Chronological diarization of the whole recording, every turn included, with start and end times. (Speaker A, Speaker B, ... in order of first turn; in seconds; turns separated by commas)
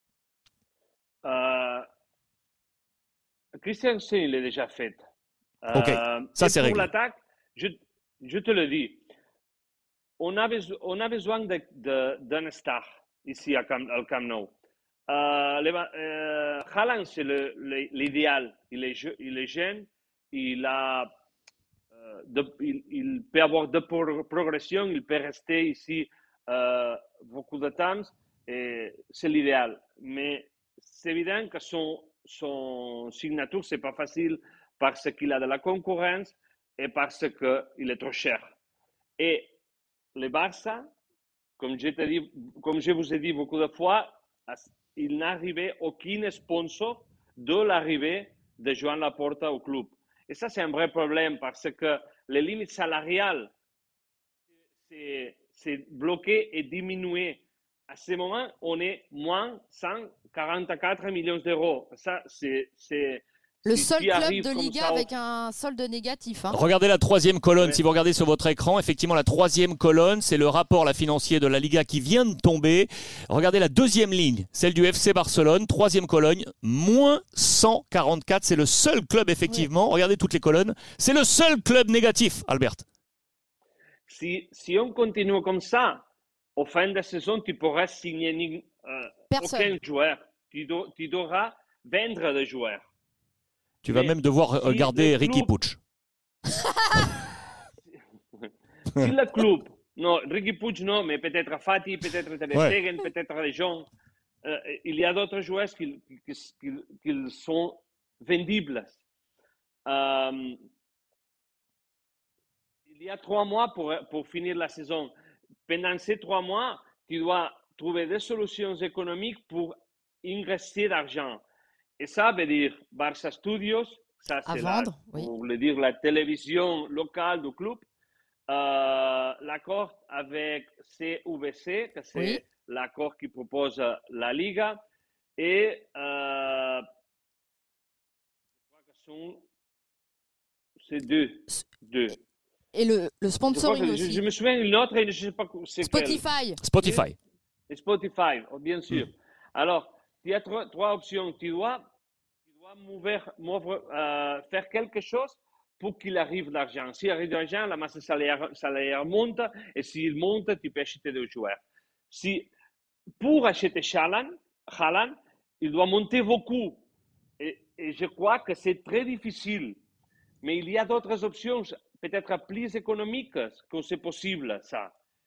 Speaker A: 1.2-1.9, Speaker A: 3.6-5.0, Speaker A: 5.6-9.0, Speaker B: 5.7-6.9, Speaker A: 10.2-14.5, Speaker A: 15.1-21.1, Speaker A: 21.9-38.5, Speaker A: 39.2-39.5, Speaker A: 40.1-40.9, Speaker A: 41.6-53.5, Speaker A: 54.8-65.1, Speaker C: 63.6-66.6, Speaker B: 66.5-82.8, Speaker A: 84.1-86.0, Speaker A: 86.5-92.9, Speaker C: 89.3-89.7, Speaker B: 93.8-95.8, Speaker A: 93.9-95.5, Speaker A: 98.4-103.9, Speaker A: 104.4-109.0, Speaker A: 109.8-110.6, Speaker A: 112.9-115.1, Speaker A: 115.7-121.4, Speaker A: 122.0-127.8, Speaker C: 124.5-125.3, Speaker A: 128.5-134.8, Speaker C: 132.1-132.4, Speaker A: 135.4-136.8, Speaker A: 138.9-139.4, Speaker A: 140.8-142.2, Speaker C: 142.7-144.2, Speaker A: 143.5-146.2, Speaker C: 145.8-146.6, Speaker B: 146.6-147.2, Speaker A: 146.8-147.0, Speaker A: 147.7-151.8, Speaker A: 152.5-162.5, Speaker A: 163.2-166.8, Speaker A: 167.4-169.8, Speaker A: 170.4-174.9